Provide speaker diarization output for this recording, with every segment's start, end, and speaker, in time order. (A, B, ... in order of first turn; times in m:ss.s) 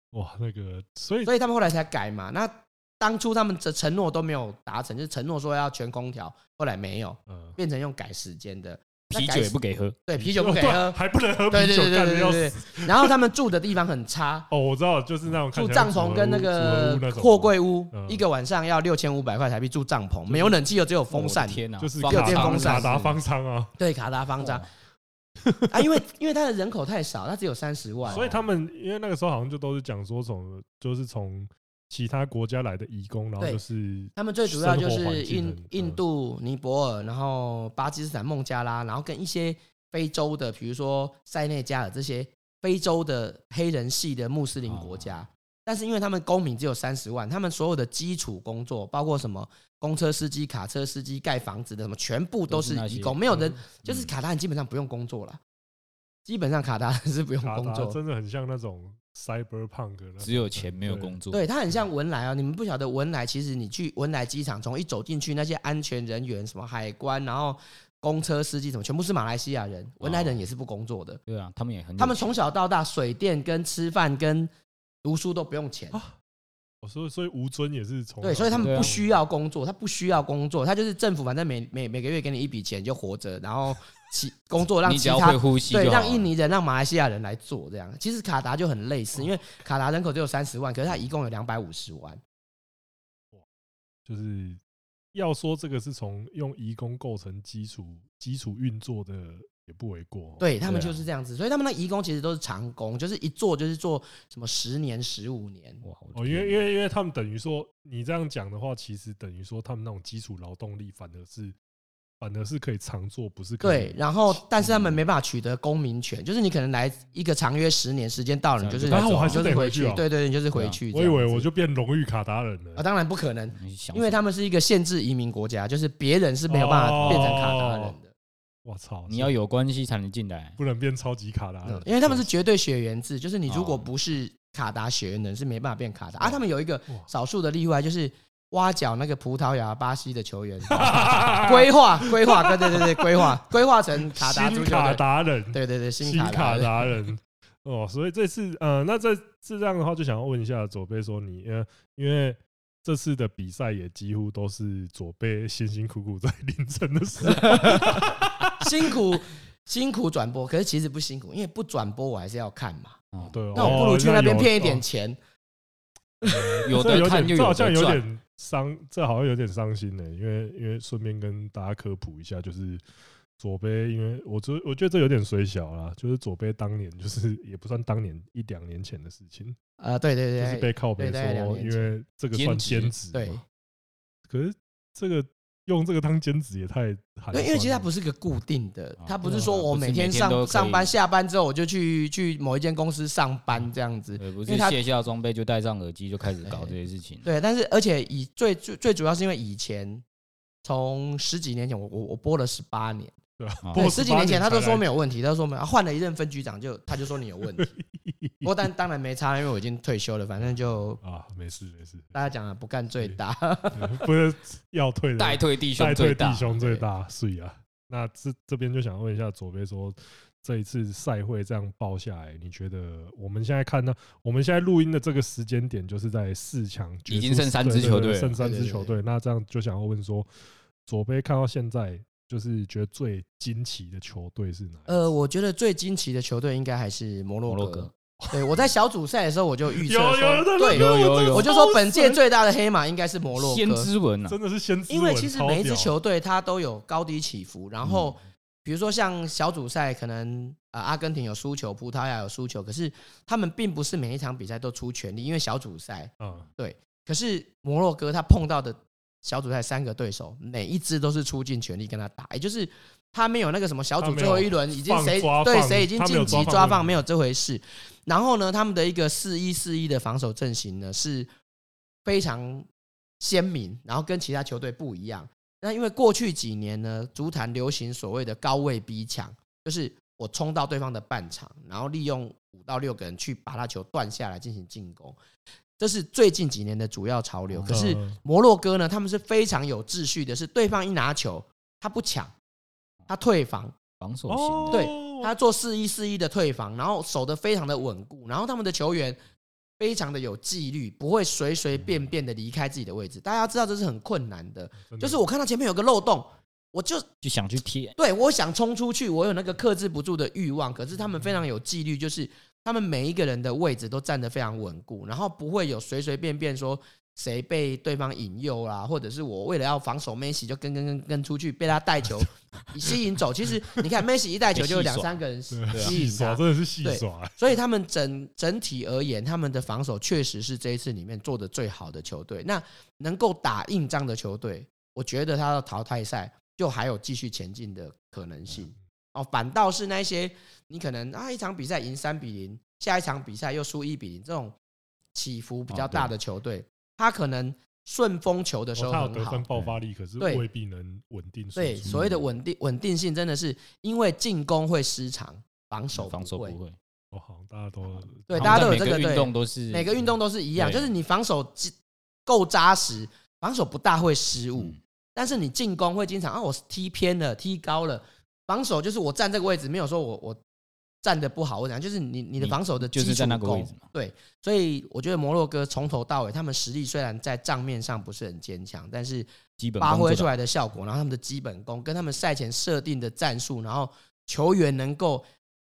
0:00.1-0:01.3 A
0:01.2-0:11.0 B
0:07.3-0:07.6 A
0:09.1-0:10.0 C
0:10.2-0:13.2 A
0:11.5-0:14.5 B
0:14.5-0:18.2 A
0:15.5-0:22.9 B
0:20.3-0:20.6 A
0:21.1-0:23.2 C
0:21.8-0:23.8 A
0:23.8-0:24.7 B
0:24.4-0:24.7 C
0:25.4-0:25.8 A
0:25.7-0:28.3 B
0:28.1-0:36.0 A
0:34.2-0:55.4 B
0:44.6-0:45.2 C
0:52.5-0:53.2 C
0:53.3-0:53.6 A
0:53.8-0:54.1 C
0:56.2-0:58.0 B
0:57.4-1:01.2 A
1:00.2-1:01.4 C
1:01.3-1:11.2 B
1:10.0-1:10.4 C
1:11.3-1:12.3 C
1:12.0-1:14.5 B
1:15.0-1:16.0 B
1:16.8-1:19.2 A
1:18.2-1:32.2 B
1:18.6-1:18.9 C
1:24.8-1:26.3 C
1:34.1-1:34.6 A
1:35.1-1:40.6 A
1:40.4-1:45.8 B
1:40.6-1:41.0 C
1:45.8-1:46.6 C
1:46.1-1:51.6 A
1:52.2-1:54.0 A
1:53.6-2:01.5 B
1:54.6-1:55.0 C
1:58.6-1:59.6 C
1:58.9-2:00.0 A
2:00.5-2:00.8 C
2:00.9-2:02.8 A
2:02.8-2:08.1 B
2:03.6-2:04.2 C
2:06.5-2:08.0 A
2:07.0-2:07.4 C
2:08.6-2:09.3 A
2:09.1-2:10.6 C
2:10.6-2:12.3 A
2:11.6-2:26.9 B
2:13.5-2:13.9 C
2:16.2-2:17.1 A
2:20.7-2:23.4 A
2:24.0-2:38.9 A
2:37.4-2:37.8 B
2:38.6-2:43.0 B
2:43.1-2:43.9 C
2:43.3-2:44.8 A
2:43.6-2:45.2 B
2:46.2-2:46.5 B
2:46.2-2:52.8 A
2:46.6-2:48.0 C
2:53.4-2:59.6 A
2:59.8-3:01.9 B
3:00.4-3:03.4 A
3:02.3-3:02.9 C
3:03.1-3:03.4 B
3:04.3-3:07.9 A
3:07.3-3:14.8 B
3:09.0-3:10.9 C
3:14.2-3:17.3 C
3:16.4-3:20.0 B
3:20.6-3:23.2 B
3:23.4-3:24.8 A
3:23.6-3:23.9 C
3:23.8-3:27.7 B
3:27.6-3:28.5 A
3:28.4-3:31.0 B
3:31.0-3:32.2 A
3:32.1-3:34.0 B
3:33.7-3:50.3 A
3:35.2-3:36.8 C
3:47.1-3:48.4 C
3:48.4-3:49.0 B
3:50.8-3:55.2 A
3:54.9-4:03.9 B
3:57.5-3:57.9 C
3:59.8-4:02.2 A
4:00.7-4:01.5 C
4:03.4-4:04.4 C
4:04.3-4:05.9 A
4:04.9-4:31.3 B
4:07.8-4:08.1 C
4:16.2-4:16.5 A
4:24.0-4:27.0 A
4:32.0-4:32.7 B
4:33.2-4:45.2 B
4:45.8-4:52.3 B
4:47.5-4:47.8 C
4:47.7-4:48.2 A
4:53.1-4:53.8 B
4:54.0-4:54.9 C
4:54.3-4:55.3 A
4:54.7-4:59.2 B
4:59.8-5:07.1 B
5:04.8-5:05.2 A
5:07.2-5:08.0 C
5:08.0-5:44.6 B
5:24.5-5:25.2 C
5:25.5-5:27.4 A
5:25.7-5:26.0 C
5:45.1-5:49.4 B
5:45.7-5:46.1 C
5:48.8-5:52.0 A
5:50.2-5:50.4 B
5:51.6-5:56.6 B
5:51.8-5:52.2 C
5:55.9-5:56.8 C
5:57.1-5:58.8 A
5:58.3-6:10.4 B
5:58.4-6:00.0 C
6:00.6-6:00.9 C
6:11.0-6:19.3 B
6:12.4-6:13.8 C
6:19.6-6:20.3 C
6:19.8-6:25.2 B